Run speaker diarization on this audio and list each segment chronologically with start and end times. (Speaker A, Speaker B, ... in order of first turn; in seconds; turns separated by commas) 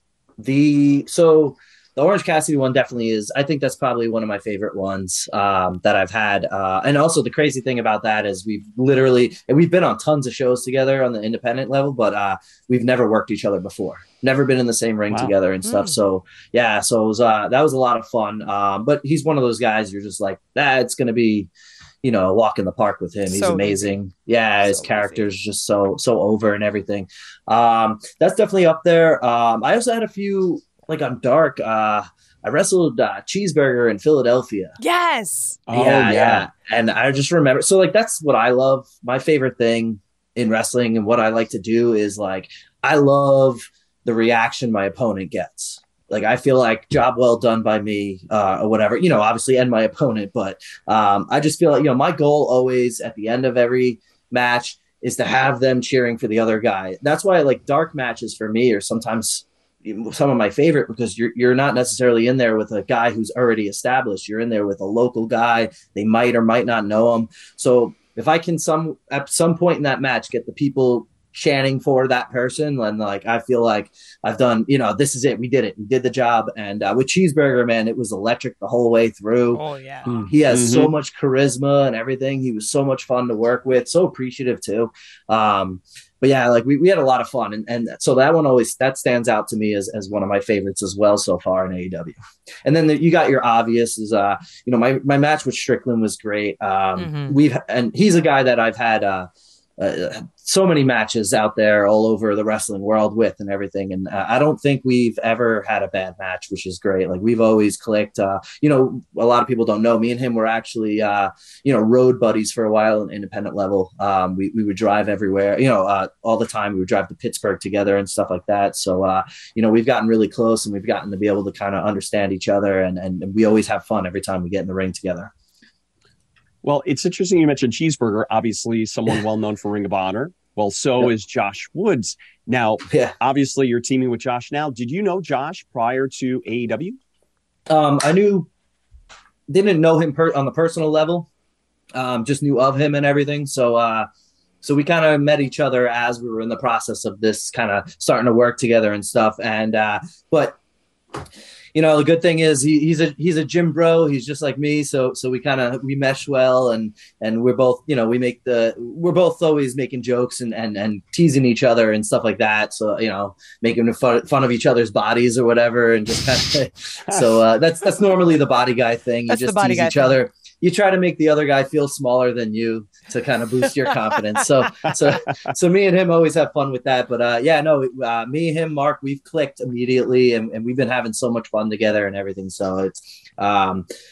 Speaker A: 0.4-21.5, Speaker B: 15.6-15.9, Speaker A: 22.0-34.8, Speaker B: 23.3-23.9, Speaker B: 24.6-25.2, Speaker B: 34.8-35.6, Speaker C: 35.7-36.5, Speaker A: 35.7-79.6, Speaker B: 79.5-80.1, Speaker C: 80.1-80.9, Speaker A: 80.2-125.3, Speaker B: 97.0-97.4, Speaker C: 126.6-137.0, Speaker A: 137.7-138.5, Speaker A: 139.5-141.3, Speaker A: 141.9-144.1, Speaker A: 144.6-150.6, Speaker A: 151.7-183.9, Speaker B: 169.3-170.2